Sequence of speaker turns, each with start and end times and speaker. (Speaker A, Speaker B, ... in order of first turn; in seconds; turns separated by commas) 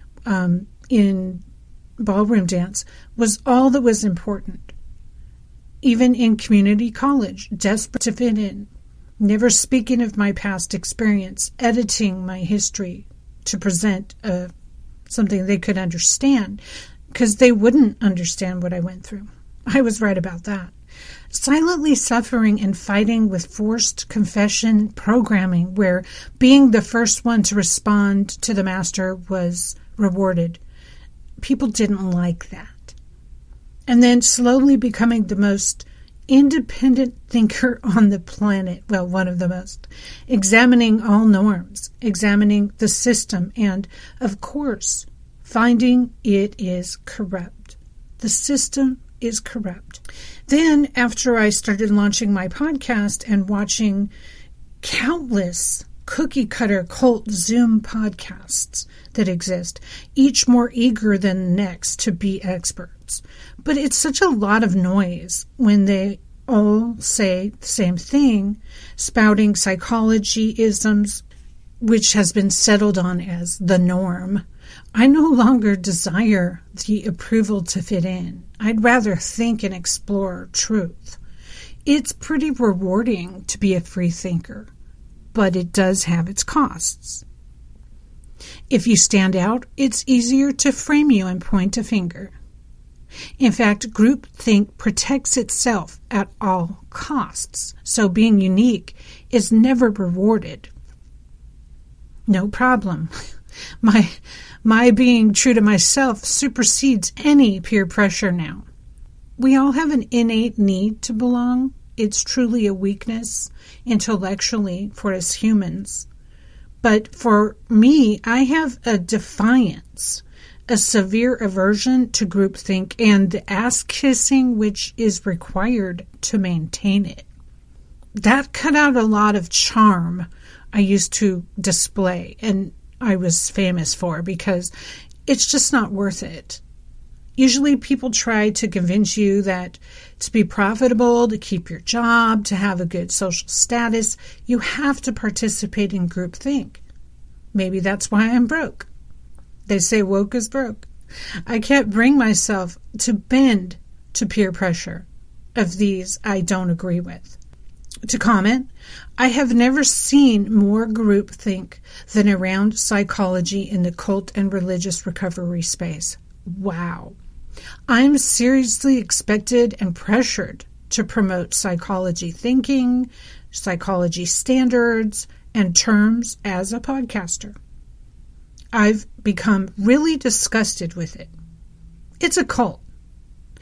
Speaker A: 0.3-1.4, Speaker A: 2.0-4.7, Speaker A: 5.8-14.5, Speaker A: 15.1-20.7, Speaker A: 21.3-30.6, Speaker A: 31.4-33.0, Speaker A: 33.9-54.1, Speaker A: 54.8-71.2, Speaker A: 71.8-74.4, Speaker A: 75.0-81.2, Speaker A: 81.9-84.7, Speaker A: 85.3-87.2, Speaker A: 88.7-92.3, Speaker A: 93.4-100.7, Speaker A: 102.3-103.1, Speaker A: 103.8-108.7, Speaker A: 109.4-116.1, Speaker A: 116.8-127.3, Speaker A: 128.2-134.7, Speaker A: 135.3-136.6, Speaker A: 137.4-146.8, Speaker A: 147.5-148.9, Speaker A: 149.7-150.9, Speaker A: 151.5-157.4, Speaker A: 158.1-167.2, Speaker A: 167.9-177.6, Speaker A: 178.7-181.3, Speaker A: 182.2-182.8